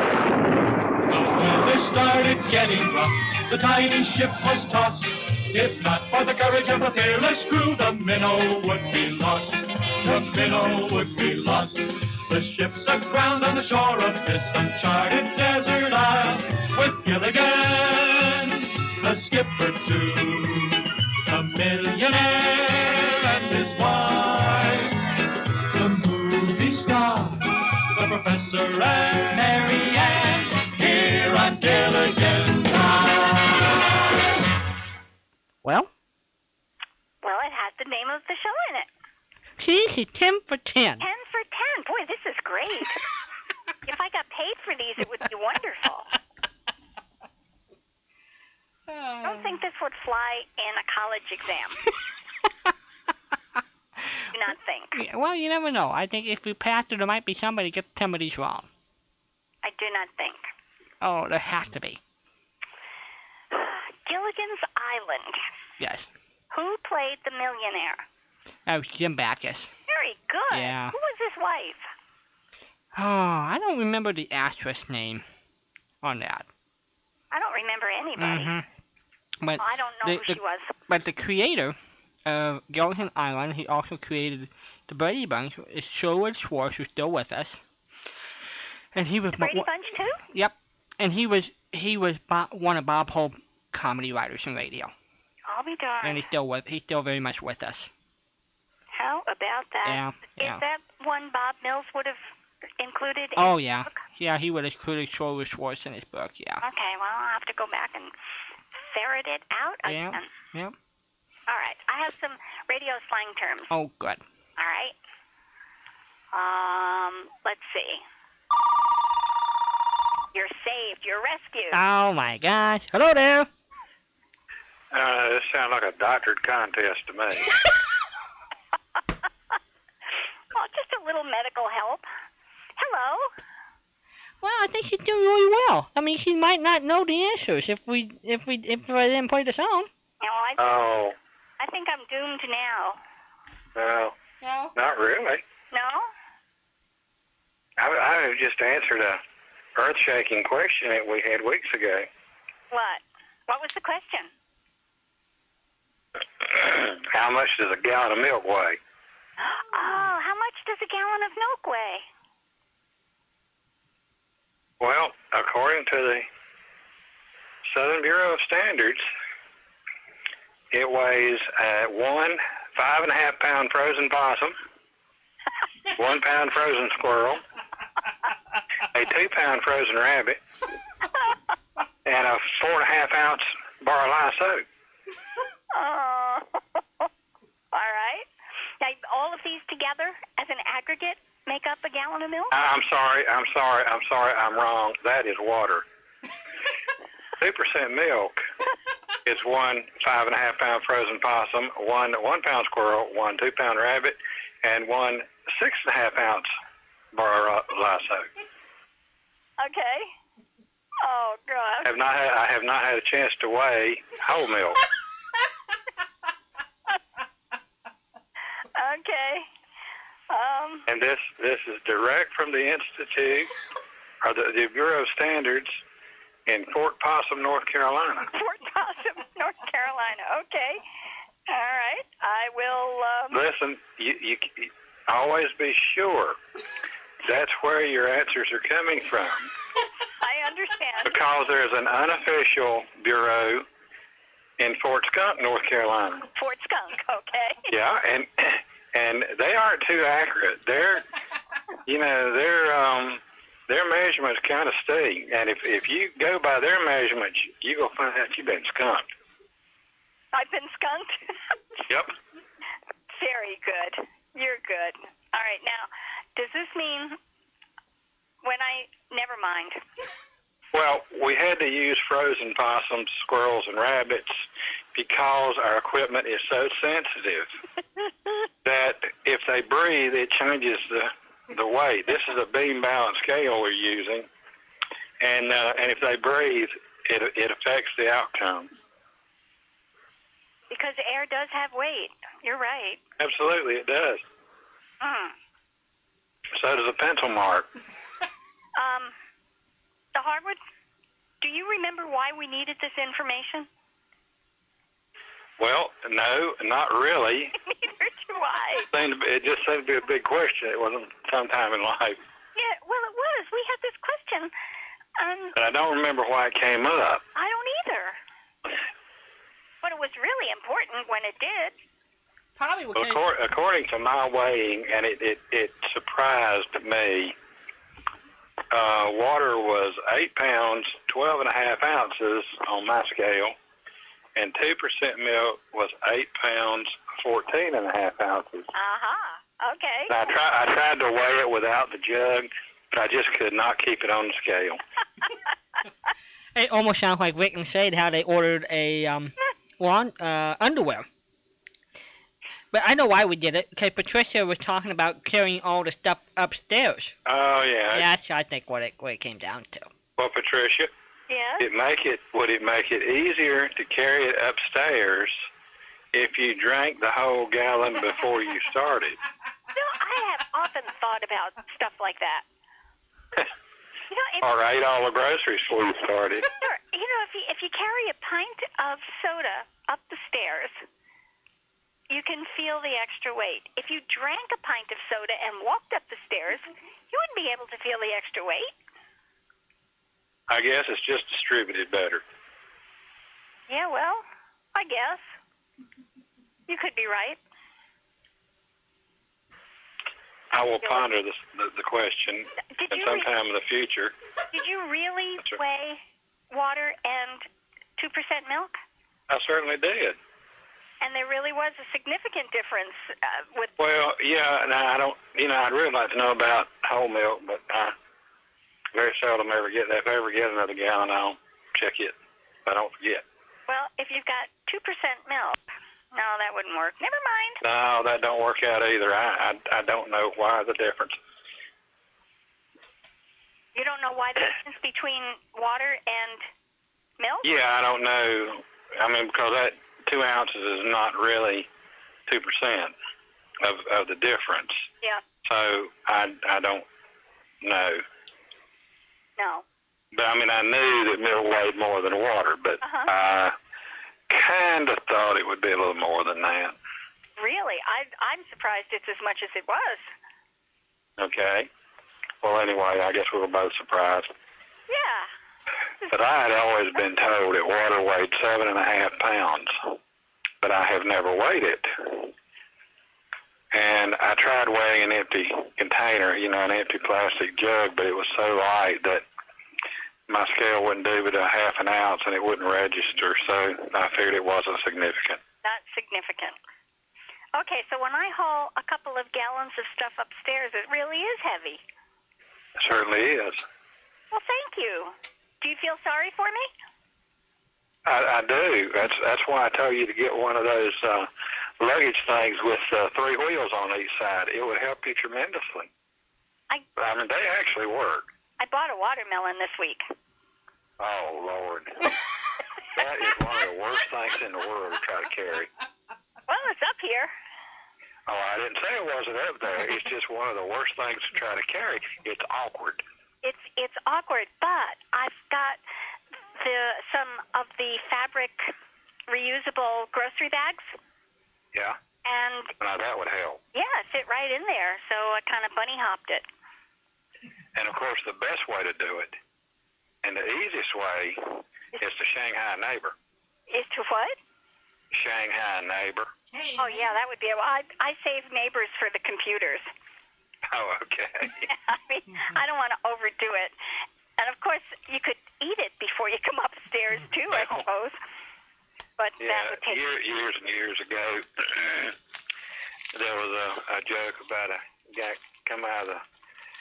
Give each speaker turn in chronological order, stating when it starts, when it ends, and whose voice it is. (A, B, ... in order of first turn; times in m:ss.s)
0:01.1-0:25.0 A
0:25.7-0:33.8 A
0:35.6-0:35.9 B
0:37.2-0:38.9 C
0:39.6-0:41.0 B
0:41.0-0:43.0 C
0:43.9-0:46.1 C
0:48.9-0:49.6 B
0:49.2-0:51.8 C
0:54.3-0:55.0 C
0:55.0-0:58.7 B
0:59.6-1:00.4 C
1:01.0-1:02.0 B
1:03.5-1:05.4 C
1:05.8-1:06.1 B
1:06.5-1:08.0 C
1:08.7-1:09.7 B
1:09.9-1:11.8 C
1:10.5-1:11.0 B
1:12.9-1:15.2 B
1:16.0-1:16.5 B
1:17.3-1:18.5 C
1:18.2-1:18.6 B
1:19.4-1:27.6 B
1:19.6-1:20.7 C
1:28.9-1:29.7 B
1:29.4-1:30.2 C
1:30.3-1:34.9 B
1:35.5-1:36.3 C
1:36.0-1:37.9 B
1:39.0-1:42.2 C
1:39.8-1:40.6 B
1:42.8-1:44.0 C
1:43.4-1:46.6 B
1:46.6-1:48.1 C
1:48.8-1:50.3 C
1:49.8-1:50.7 B
1:51.5-1:53.7 C
1:53.7-1:54.2 B
1:54.6-1:55.0 C
1:56.3-1:58.0 C
2:00.3-2:01.8 C
2:01.7-2:03.5 B
2:04.9-2:07.5 D
2:10.5-2:12.0 C
2:12.8-2:13.3 C
2:14.4-2:19.9 B
2:20.2-2:20.7 C
2:20.6-2:21.1 D
2:21.6-2:23.0 C
2:23.7-2:24.2 D
2:24.4-2:24.7 B
2:24.7-2:25.4 D
2:25.7-2:26.1 C
2:27.8-2:29.2 D
2:29.8-2:32.1 D
2:32.7-2:34.3 C
2:36.4-2:38.8 D
2:39.4-2:42.0 C
2:44.8-2:46.3 D
2:47.7-2:49.0 D
2:50.7-2:54.6 D
2:55.9-2:57.4 D
2:58.9-3:00.4 D
3:02.0-3:04.6 D
3:05.7-3:07.1 C
3:07.7-3:08.2 C
3:08.8-3:12.5 C
3:12.5-3:15.8 D
3:17.4-3:18.4 D
3:19.2-3:26.5 D
3:27.1-3:28.3 D
3:29.6-3:30.1 C
3:31.0-3:31.9 C
3:31.8-3:34.8 D
3:38.8-3:39.5 C
3:40.3-3:40.9 C
3:40.9-3:43.5 D
3:44.2-3:45.8 D
3:46.5-3:48.3 D
3:48.3-3:50.8 C
3:51.5-3:53.4 C
3:53.3-3:56.4 D
3:57.2-3:59.5 D
4:00.2-4:01.2 C
4:01.0-4:03.7 D
4:04.6-4:06.2 D
4:06.3-4:07.6 C
4:07.7-4:11.0 D
4:11.9-4:19.0 D
4:20.3-4:21.2 C
4:23.1-4:27.2 C
4:28.4-4:29.8 C
4:30.7-4:37.5 D
4:38.6-4:44.3 D
4:45.2-4:48.7 D
4:50.7-4:53.0 C
4:53.2-4:54.2 D
4:55.0-4:55.3 C
4:56.5-4:57.7 D
4:58.8-4:59.1 C
5:00.1-5:00.6 C
5:01.4-5:03.7 C
5:05.6-5:07.5 D
5:07.7-5:08.9 C
5:08.9-5:12.2 D
5:12.6-5:14.5 C
5:15.2-5:15.5 C
5:15.5-5:17.2 D
5:17.3-5:18.2 C
5:19.8-5:21.8 C
5:22.6-5:23.2 B
5:23.0-5:27.4 D
5:28.7-5:33.5 D
5:34.3-5:38.7 D
5:38.7-5:40.2 C
5:40.1-5:44.8 D
5:46.5-5:51.0 B
5:52.7-5:57.1 B
5:57.2-5:58.1 D
5:57.9-5:59.9 B
6:00.2-6:00.9 D
6:01.3-6:01.7 C
6:01.6-6:05.4 D
6:06.1-6:09.2 D
6:09.8-6:12.4 C
6:14.1-6:14.5 C
6:14.4-6:16.5 D
6:16.6-6:20.8 C
6:22.1-6:28.7 C
6:30.5-6:32.2 D
6:33.7-6:35.2 C
6:36.7-6:37.4 C
6:40.5-6:44.1 D
6:42.7-6:43.3 C
6:44.5-6:46.0 C
6:46.5-6:47.4 C
6:48.0-6:48.8 C
6:49.3-6:50.2 D
6:51.0-6:53.7 C
6:53.8-6:57.9 D
6:58.9-7:02.1 D
7:02.7-7:03.2 D
7:03.7-7:05.6 C
7:06.1-7:07.6 C
7:07.6-7:11.2 D
7:13.8-7:16.4 C
7:17.2-7:17.5 C
7:17.4-7:21.7 D
7:22.3-7:22.9 D
7:23.6-7:24.9 D
7:25.4-7:26.8 D
7:27.6-7:28.0 D
7:29.4-7:29.6 C
7:30.1-7:33.5 D
7:32.8-7:33.1 C
7:34.3-7:36.8 D
7:37.4-7:40.1 C
7:41.2-7:41.7 D
7:42.4-7:44.3 D
7:44.9-7:45.3 C
7:46.1-7:50.0 D
7:50.6-7:52.3 D
7:53.7-7:59.2 D
8:00.3-8:05.4 D
8:05.6-8:06.6 C
8:07.5-8:11.8 C
8:12.8-8:13.6 D
8:14.3-8:16.7 C
8:18.0-8:25.9 D
8:27.0-8:28.2 D
8:28.6-8:30.0 C
8:31.0-8:32.1 D
8:33.0-8:35.7 D
8:36.5-8:37.3 C
8:38.3-8:43.0 D
8:43.4-8:45.8 C
8:46.6-8:48.7 C
8:49.3-8:50.8 C
8:52.2-8:52.7 C
8:52.8-8:53.6 D
8:53.7-8:56.5 C
8:57.8-8:59.3 D
9:00.2-9:03.1 D
9:03.7-9:04.4 C
9:05.1-9:06.3 D
9:06.5-9:07.1 B
9:06.8-9:09.9 C
9:10.7-9:11.7 D
9:11.7-9:13.7 C
9:14.4-9:18.2 C
9:17.5-9:17.8 D
9:19.2-9:20.0 C
9:19.4-9:22.2 D
9:23.1-9:26.2 D